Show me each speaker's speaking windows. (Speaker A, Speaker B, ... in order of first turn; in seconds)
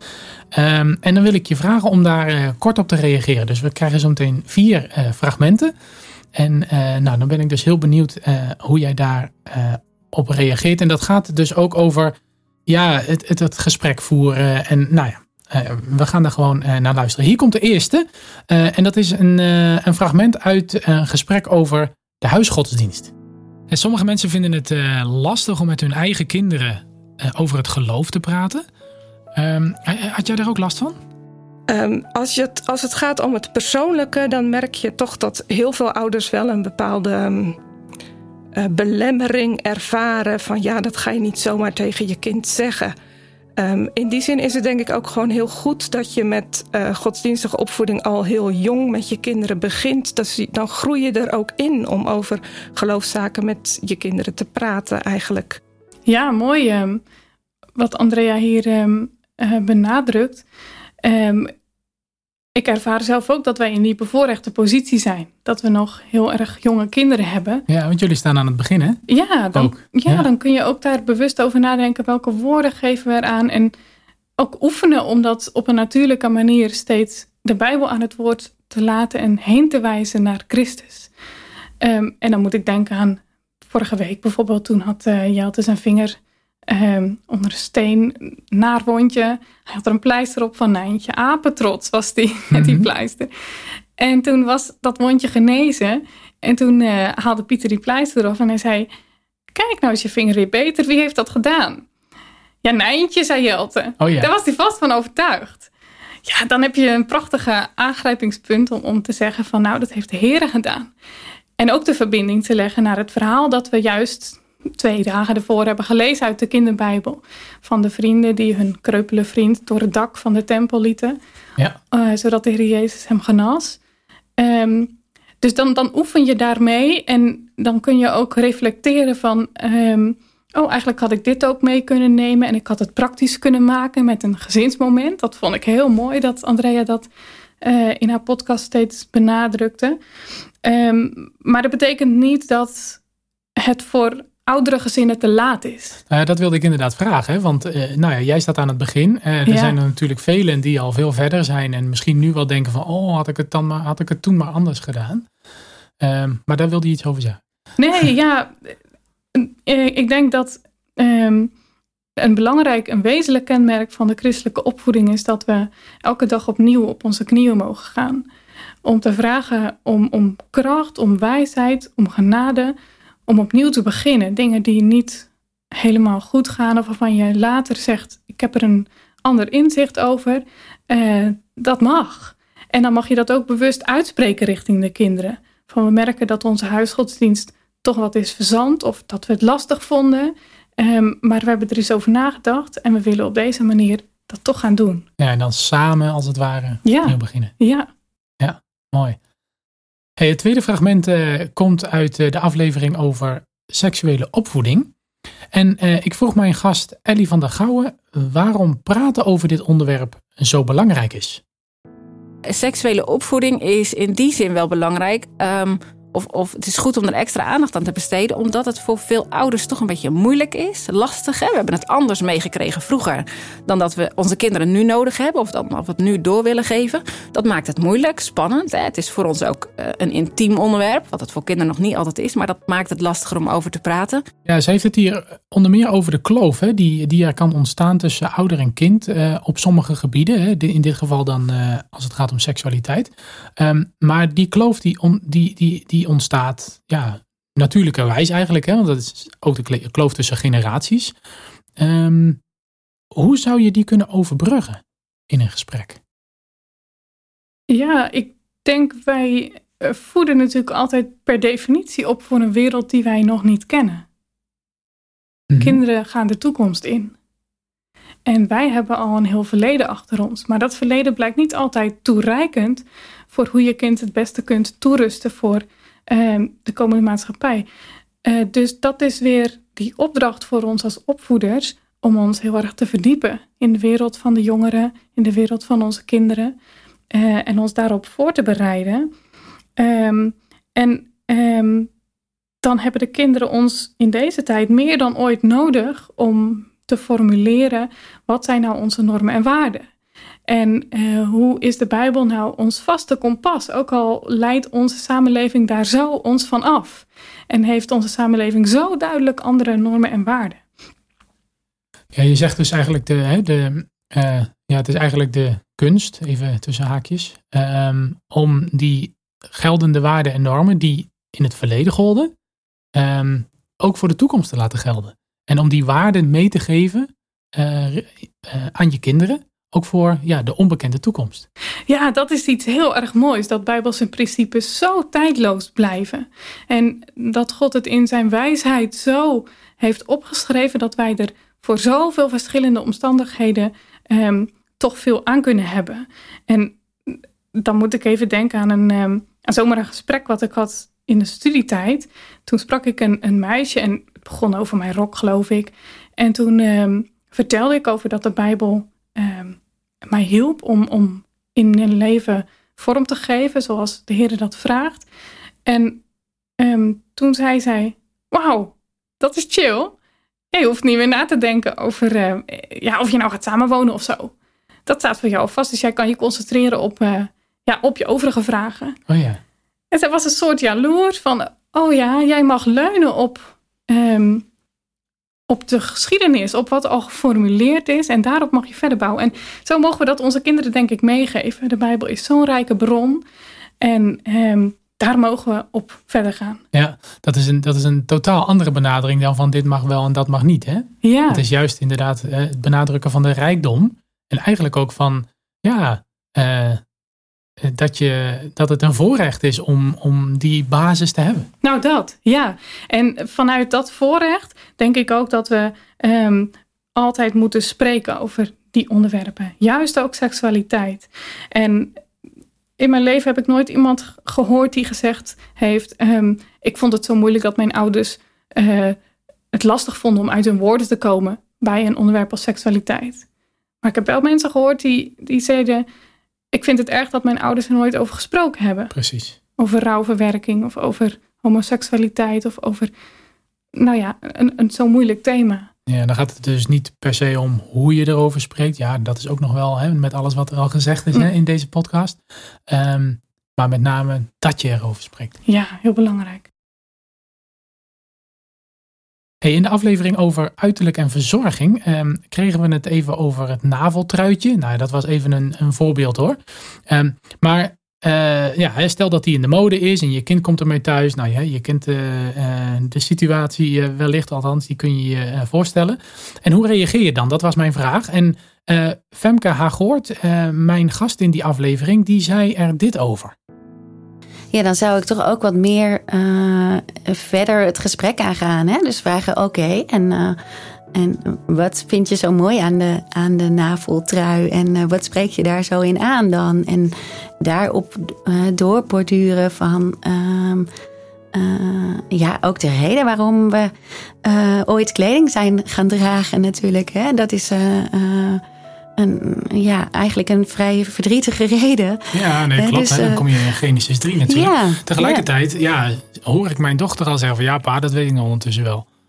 Speaker A: 0.5-5.7, 6.3-12.2, 12.7-23.1, 23.7-28.6, 29.3-31.0, 67.7-69.0, 69.5-70.3, 92.5-92.9, 104.0-104.3, 146.1-155.3, 156.0-157.4, 195.2-197.5, 198.4-199.2, 200.2-204.9, 205.5-211.4, 234.4-251.1, 251.8-252.4, 253.1-256.0, 265.5-265.8, 312.1-322.3, 322.9-331.4, 379.1-379.4, 396.7-406.8, 407.6-411.5, 438.9-439.4, 445.9-455.3, 459.4-483.3, 512.1-518.9
Speaker B: 31.7-37.6, 38.5-42.9, 43.6-55.6
Speaker C: 56.1-57.0, 57.8-60.4, 61.0-61.5, 62.5-67.7, 69.1-73.7, 74.4-81.1, 81.8-93.3, 94.0-98.9, 99.5-101.8, 102.6-105.7, 106.2-110.9, 111.6-121.2, 121.9-123.8, 124.4-137.1, 137.6-140.0, 140.6-143.0, 143.6-146.0, 149.4-149.8, 157.8-158.7, 159.3-161.5, 162.2-168.2, 168.8-172.7, 173.3-195.0, 196.8-197.9, 257.7-264.0, 265.6-267.1, 268.2-277.7, 278.2-286.6, 287.1-289.1, 289.8-291.9, 292.6-299.9, 300.5-310.6, 331.9-359.6, 360.1-365.1, 365.7-366.0, 366.6-369.9, 370.5-374.3, 374.9-379.0, 379.9-384.4, 385.5-393.2, 393.8-396.6, 401.0-401.4, 411.6-421.9, 422.8-429.0, 429.5-433.2, 433.8-435.9, 436.5-438.9, 439.6-442.9, 443.7-445.7, 455.4-456.5
Speaker D: 212.5-234.2
Speaker E: 484.5-490.4, 490.9-500.7, 501.3-503.7, 504.2-508.4, 509.0-513.2, 514.3-515.3